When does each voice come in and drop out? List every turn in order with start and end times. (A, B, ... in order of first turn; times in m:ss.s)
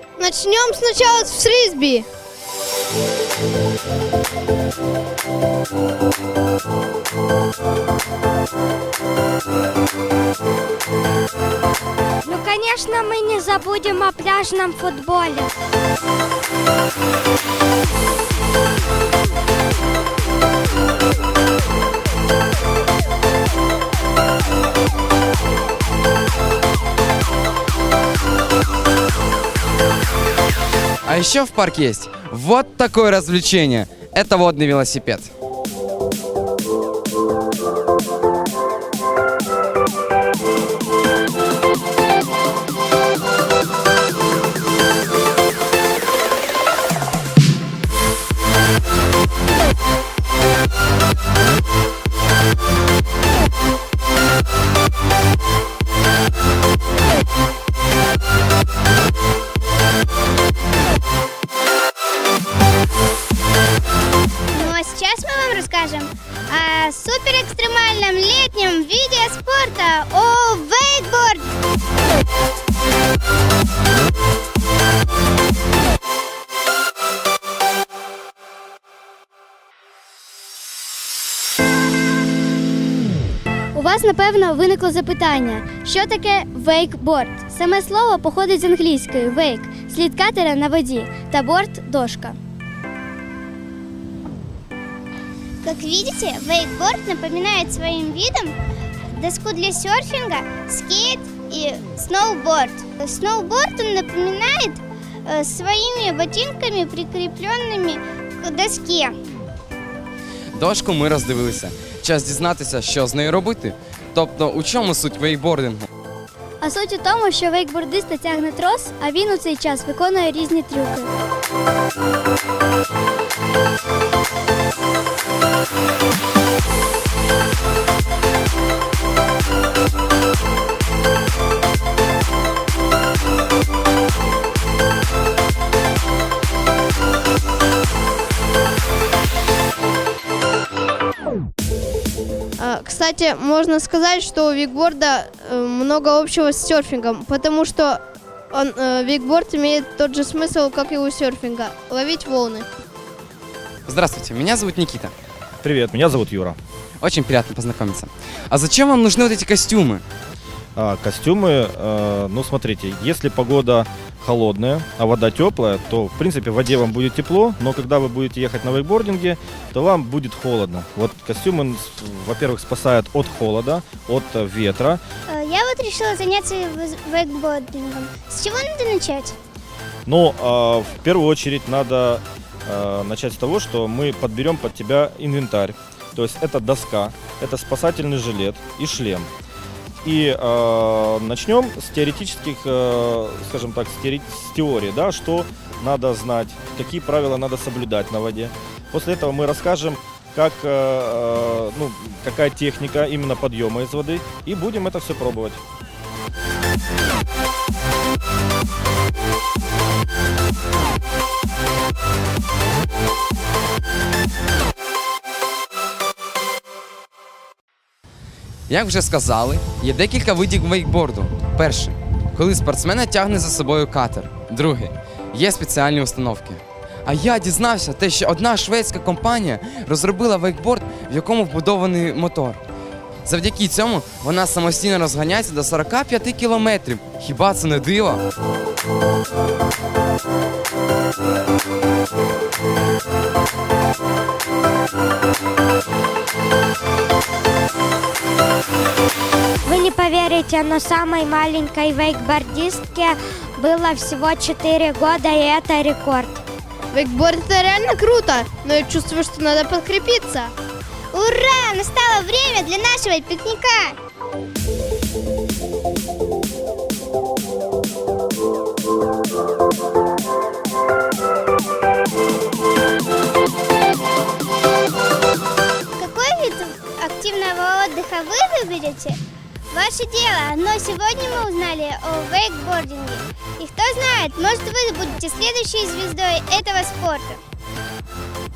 0:00.2-0:02.0 A
0:12.2-0:15.5 B
0:31.0-0:35.3 C
1:04.5-1:11.5 D
1:23.7-1:32.4 E
1:35.6-1:38.6 D
1:39.1-1:49.2 D
1:50.5-1:55.9 C
1:56.6-2:01.1 E
2:22.6-2:32.7 A
2:33.9-2:35.1 C
2:35.6-2:36.6 F
2:37.0-2:40.0 C
2:40.8-2:55.0 F
2:55.3-2:59.4 D
3:00.0-3:09.3 F
3:10.0-3:25.6 F
3:38.7-3:52.6 C
3:53.2-3:58.2 C
4:09.6-4:16.4 B
4:16.9-4:20.5 A
4:21.1-4:24.0 D
4:36.0-4:47.4 D